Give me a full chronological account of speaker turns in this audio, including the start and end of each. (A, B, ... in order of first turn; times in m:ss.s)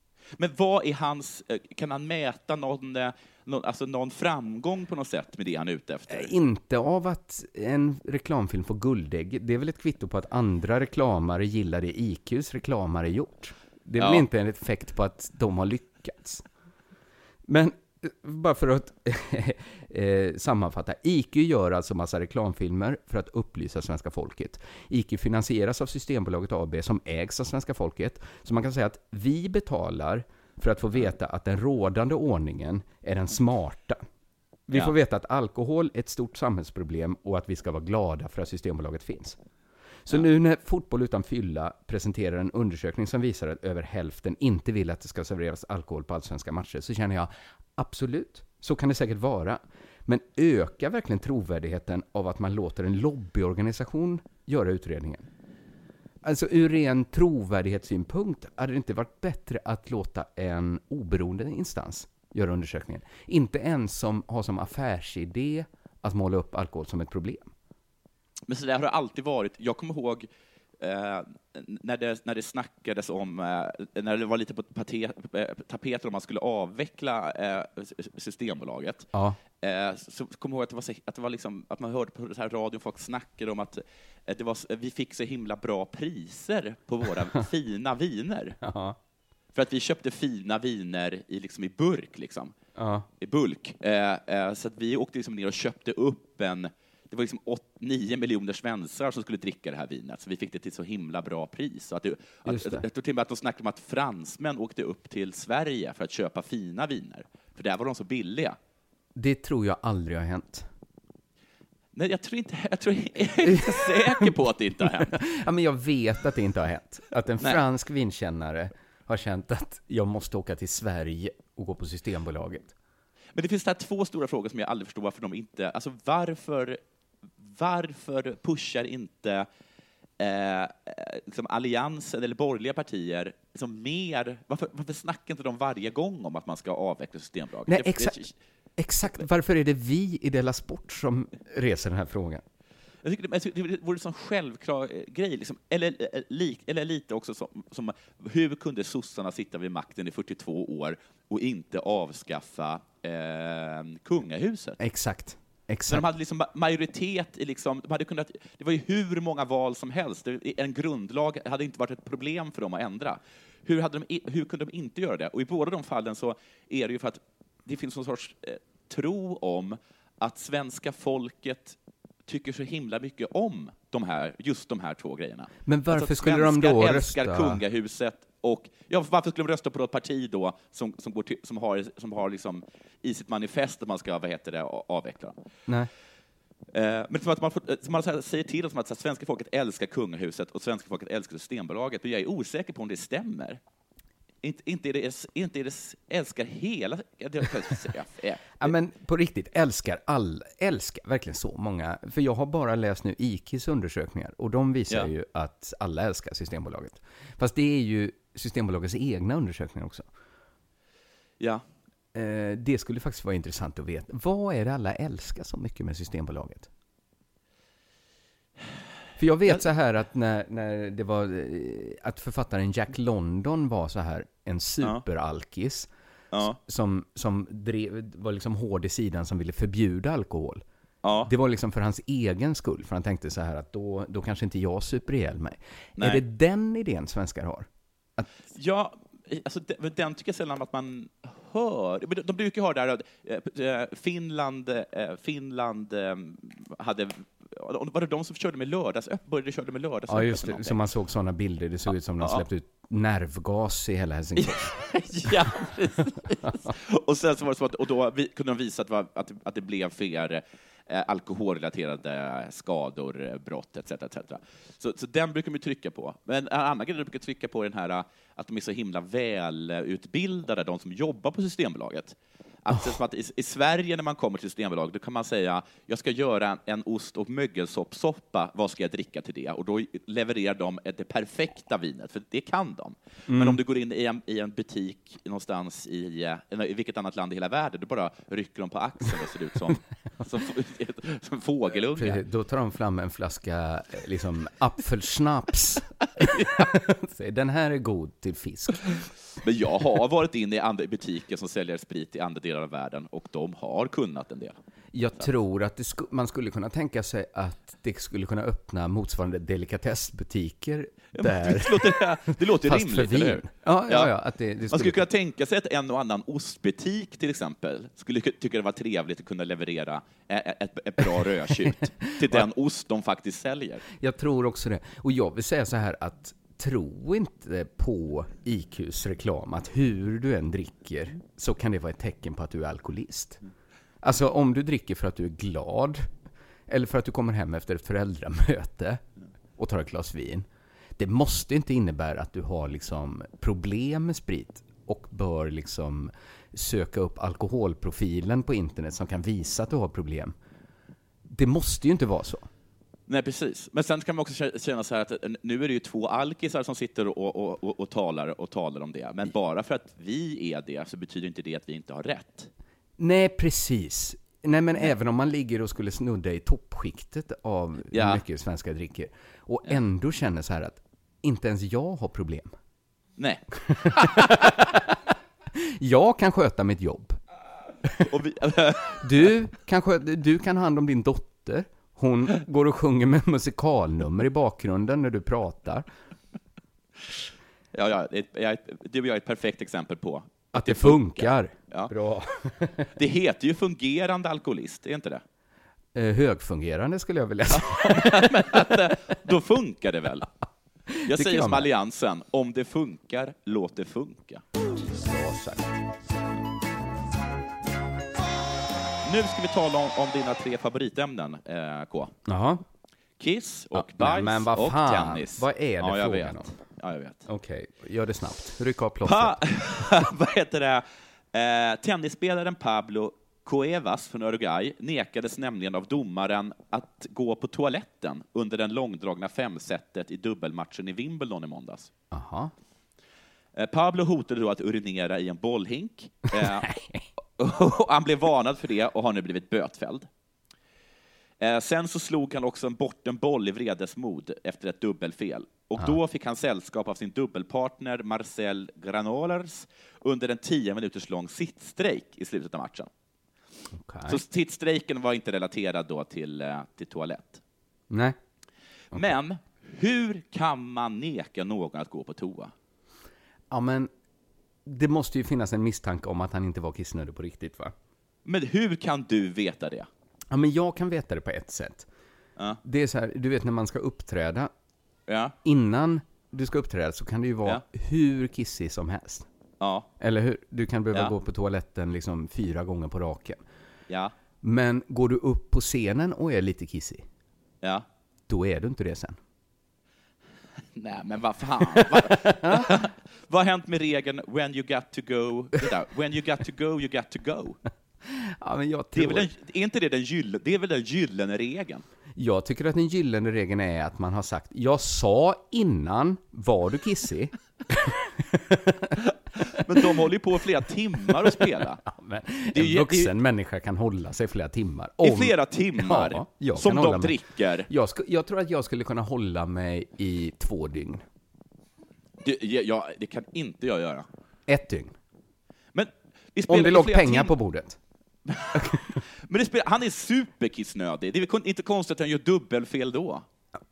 0:00.4-0:06.3 A
0:06.1-0:16.4 B
0:14.0-0:14.3 A
0:17.5-0:34.0 B
0:34.7-0:39.4 B
0:40.1-0:55.3 B
0:56.2-1:07.5 B
1:08.5-1:10.3 A
1:10.8-1:19.1 A
1:19.1-1:19.4 B
1:19.6-1:28.6 A
1:28.6-1:29.0 B
1:29.6-1:32.5 A
1:32.8-1:33.1 B
1:33.2-1:48.6 A
1:42.5-1:42.8 B
1:49.1-1:50.7 B
1:51.9-1:55.2 A
1:53.4-2:02.7 B
2:03.4-2:06.8 A
2:07.4-2:09.5 A
2:10.2-2:18.3 A
2:17.7-2:18.2 B
2:18.8-2:22.4 B
2:23.0-2:34.8 A
2:34.8-2:36.0 B
2:35.9-3:05.4 A
2:55.6-2:57.6 B
3:06.7-3:13.6 A
3:14.4-3:18.7 A
3:18.6-3:30.1 B
3:32.1-3:36.7 B
3:39.2-3:45.9 B
3:46.3-3:46.6 A
3:46.6-3:50.6 B
3:51.0-3:51.3 A
3:51.3-3:58.3 B
3:56.0-3:56.2 A
3:58.5-4:10.8 A
4:10.1-4:14.7 B
4:14.4-4:52.2 A
4:43.3-4:43.6 B
4:51.9-4:59.1 B
4:59.4-5:04.6 A
5:04.9-5:15.1 B
5:11.2-5:14.1 A
5:14.7-5:23.8 A
5:23.9-5:33.4 B
5:34.0-5:36.1 B
5:36.7-5:39.0 B
5:39.6-5:50.4 B
5:51.3-5:52.5 B
5:53.1-6:02.5 A
6:03.0-6:12.5 B
6:07.9-6:08.2 A
6:13.2-6:14.1 A
6:13.7-6:17.2 B
6:18.0-6:19.1 A
6:19.0-6:25.8 B
6:27.7-6:31.9 A
6:30.5-6:32.9 B
6:33.0-6:35.2 A
6:35.9-6:38.9 B
6:37.5-6:40.3 A
6:41.0-6:41.7 B
6:41.1-6:44.4 A
6:44.8-6:45.8 B
6:49.0-6:52.2 A
6:52.2-6:52.6 B
6:53.2-6:57.2 A
6:53.7-6:56.5 B
6:57.3-6:59.4 B
6:59.0-7:11.9 A
7:12.1-7:12.5 B
7:13.6-7:16.7 A
7:16.3-7:17.1 B
7:17.4-7:20.1 A
7:21.4-7:32.9 A
7:33.7-7:34.2 B
7:34.1-7:37.4 A
7:37.9-7:38.2 B
7:38.9-7:42.5 A
7:43.5-7:43.9 B
7:44.6-7:47.7 B
7:48.2-7:49.9 A
7:50.3-7:51.9 B
7:52.6-7:54.5 B
7:55.1-7:55.4 A
7:55.4-7:59.2 B
7:59.6-7:59.9 A
8:00.0-8:03.4 B
8:04.4-8:07.0 B
8:08.3-8:09.2 B
8:10.8-8:17.6 A
8:11.7-8:12.7 B
8:18.1-8:19.3 B
8:18.9-8:21.8 A
8:22.2-8:29.0 B
8:29.4-8:31.8 A
8:31.4-8:37.2 B
8:32.5-8:33.1 A
8:35.0-8:37.7 A
8:37.7-8:41.0 B
8:42.2-8:44.1 A
8:44.5-8:44.9 B
8:45.7-8:47.3 A
8:46.5-8:47.8 B
8:48.3-8:53.2 A
8:48.5-8:49.0 B